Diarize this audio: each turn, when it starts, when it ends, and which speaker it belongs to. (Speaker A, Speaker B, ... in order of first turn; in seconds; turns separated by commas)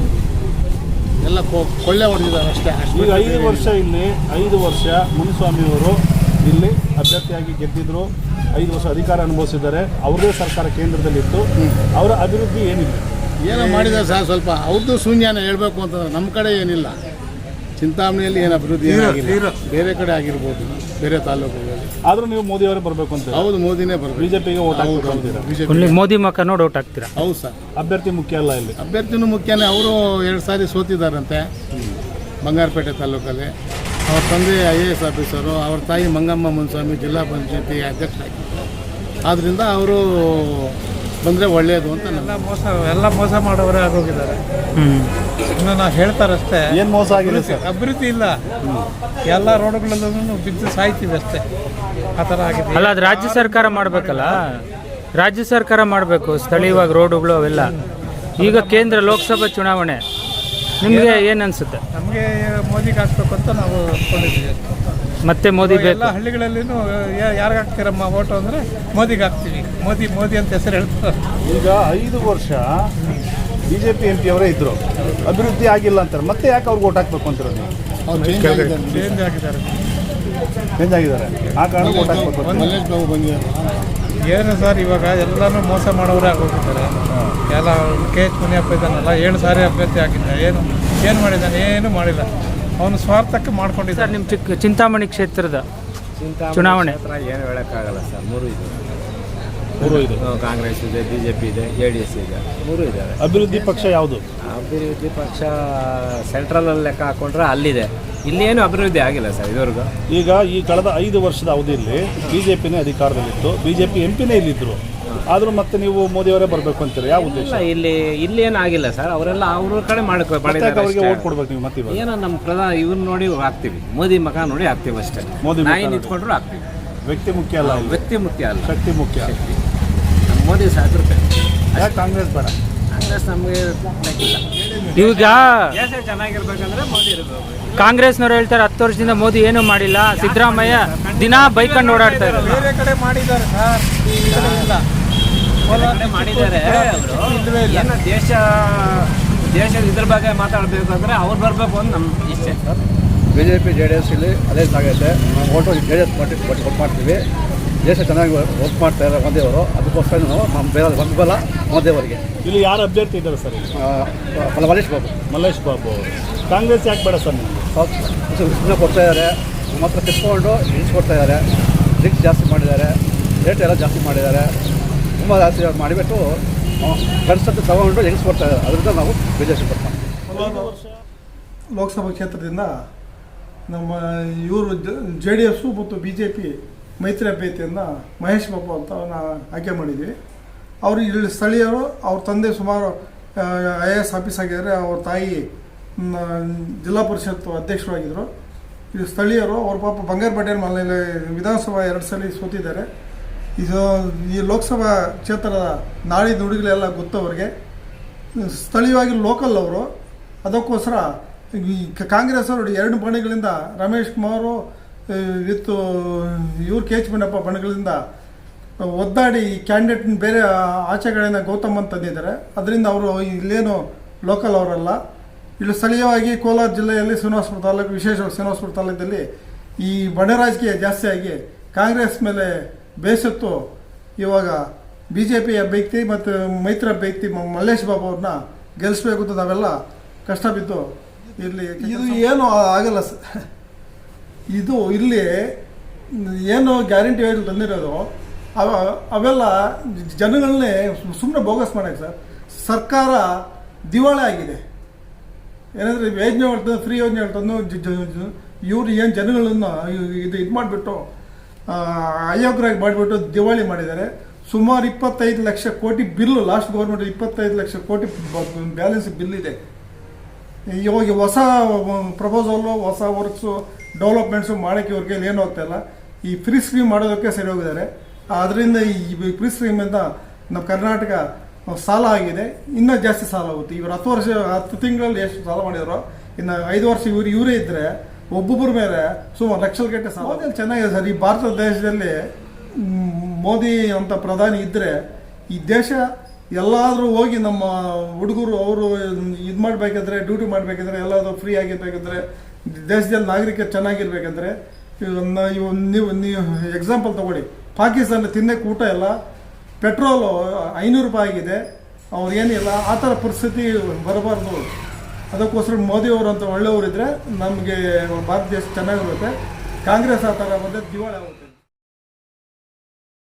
Speaker A: 1.2-3.7, Speaker B: 2.9-13.1, Speaker A: 13.4-17.0, Speaker A: 17.8-21.9, Speaker C: 18.9-19.6, Speaker B: 22.1-23.5, Speaker A: 23.3-26.0, Speaker B: 24.2-25.5, Speaker D: 25.7-27.1, Speaker A: 27.2-27.6, Speaker B: 27.8-28.7, Speaker A: 28.8-31.5, Speaker A: 32.4-33.5, Speaker A: 34.1-38.6, Speaker A: 39.3-42.5, Speaker C: 42.1-44.4, Speaker D: 44.8-45.1, Speaker C: 45.5-48.4, Speaker B: 46.7-47.7, Speaker B: 48.6-48.9, Speaker C: 49.2-51.4, Speaker C: 52.2-54.4, Speaker D: 52.7-54.4, Speaker D: 55.2-57.7, Speaker D: 58.4-60.0, Speaker C: 58.4-59.2, Speaker D: 60.8-61.8, Speaker C: 60.8-61.2, Speaker C: 61.9-64.7, Speaker D: 65.2-66.1, Speaker C: 65.6-71.2, Speaker B: 71.4-72.9, Speaker C: 73.0-73.2, Speaker B: 73.7-77.7, Speaker A: 78.1-79.2, Speaker D: 78.4-78.7, Speaker C: 78.9-79.8, Speaker B: 80.8-82.8, Speaker A: 81.8-83.9, Speaker C: 84.2-94.2, Speaker B: 87.1-87.4, Speaker D: 93.9-95.7, Speaker E: 96.2-98.9, Speaker D: 96.5-97.0, Speaker B: 99.8-100.3, Speaker E: 99.8-103.2, Speaker B: 103.2-104.2, Speaker E: 104.4-109.9, Speaker B: 110.1-117.7, Speaker E: 117.1-121.3, Speaker B: 120.4-122.1, Speaker E: 121.9-126.7, Speaker B: 125.4-126.2, Speaker B: 127.0-129.3, Speaker E: 127.6-129.6, Speaker E: 130.3-131.9, Speaker B: 131.7-132.6, Speaker E: 132.9-134.4, Speaker D: 134.9-135.8, Speaker E: 135.0-138.0, Speaker D: 137.7-142.5, Speaker E: 140.2-142.7, Speaker C: 142.4-144.8, Speaker E: 144.3-144.7, Speaker C: 145.7-147.8, Speaker E: 145.7-152.7, Speaker F: 153.3-157.2, Speaker F: 157.8-162.2, Speaker B: 162.4-163.7, Speaker F: 163.8-165.2, Speaker B: 165.3-167.7, Speaker F: 167.7-171.4, Speaker F: 172.0-174.5, Speaker F: 175.2-176.3, Speaker F: 176.8-180.0, Speaker G: 180.3-180.8, Speaker B: 180.4-180.8, Speaker G: 181.7-182.7, Speaker G: 183.7-190.1, Speaker G: 190.8-195.5, Speaker G: 196.0-198.3, Speaker G: 198.9-202.9, Speaker G: 203.6-207.5, Speaker G: 208.4-209.9, Speaker G: 210.4-218.0, Speaker G: 218.9-225.0, Speaker G: 225.6-229.2, Speaker G: 229.8-233.6, Speaker G: 234.2-239.7, Speaker G: 240.3-240.8, Speaker G: 241.4-243.2, Speaker G: 244.5-245.5, Speaker G: 246.2-254.6, Speaker G: 255.8-261.0, Speaker G: 261.7-269.6, Speaker G: 270.8-281.2, Speaker G: 281.7-292.1, Speaker G: 292.8-294.9, Speaker G: 295.5-296.0, Speaker G: 296.6-309.1, Speaker G: 309.8-311.6, Speaker G: 312.1-314.6, Speaker G: 315.3-319.3, Speaker G: 319.8-321.6